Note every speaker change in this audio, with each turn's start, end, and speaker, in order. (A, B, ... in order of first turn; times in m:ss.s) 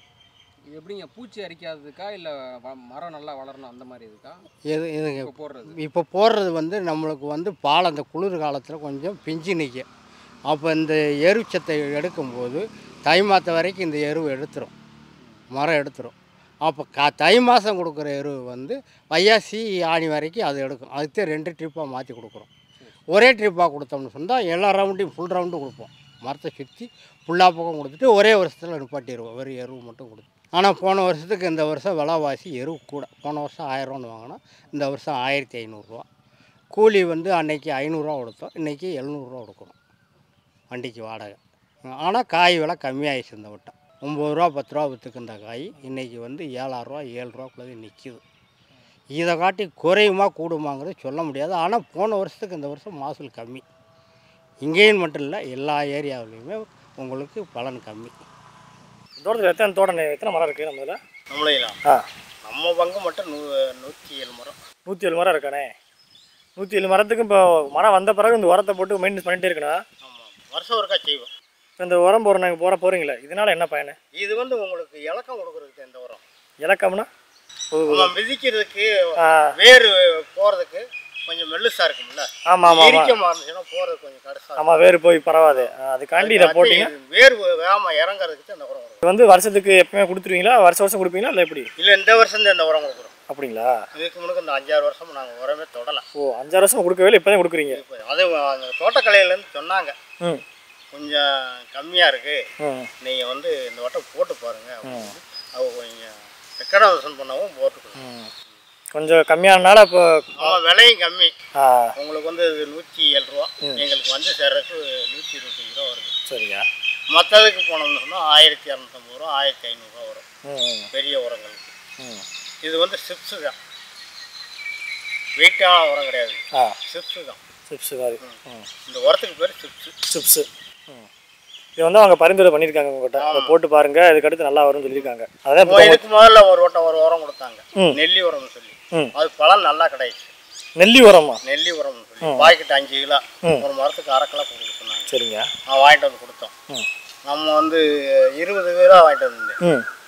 0:00.7-0:04.4 A
0:04.7-0:09.9 B
0:05.2-0:05.8 A
0:10.5-0:14.7 B
0:15.5-0:22.5 B
0:23.1-0:36.1 B
0:36.7-0:39.8 B
0:40.7-0:48.2 B
0:49.2-0:53.6 B
0:54.6-0:58.2 B
0:59.2-1:01.0 C
1:01.3-1:01.8 B
1:02.4-1:04.6 B
1:04.9-1:05.7 C
1:06.6-1:09.8 C
1:10.0-1:11.3 B
1:11.8-1:14.0 C
1:14.2-1:16.2 B
1:16.6-1:17.1 C
1:17.7-1:18.1 C
1:17.9-1:24.7 B
1:19.2-1:19.5 C
1:22.5-1:23.2 C
1:24.6-1:26.9 C
1:25.3-1:29.0 B
1:29.0-1:31.7 C
1:31.8-1:33.1 B
1:33.3-1:33.8 C
1:34.0-1:36.0 B
1:36.2-1:37.8 C
1:37.7-1:40.0 B
1:40.9-1:42.4 B
1:42.6-1:42.9 C
1:43.0-1:48.0 B
1:44.9-1:45.1 C
1:48.0-1:48.3 C
1:49.0-1:50.6 C
1:50.4-1:51.3 B
1:51.6-1:51.9 C
1:52.0-1:56.1 B
1:56.3-1:56.6 C
1:57.1-2:00.2 B
2:00.5-2:00.9 C
2:00.9-2:01.7 B
2:02.0-2:02.2 C
2:02.6-2:03.6 B
2:05.4-2:07.4 B
2:07.7-2:08.7 C
2:08.2-2:10.0 B
2:10.1-2:11.1 C
2:11.8-2:16.0 C
2:13.2-2:13.6 B
2:15.6-2:20.3 B
2:20.8-2:21.4 C
2:21.4-2:25.1 B
2:22.2-2:22.5 C
2:25.1-2:25.5 C
2:25.7-2:26.5 B
2:27.3-2:29.6 B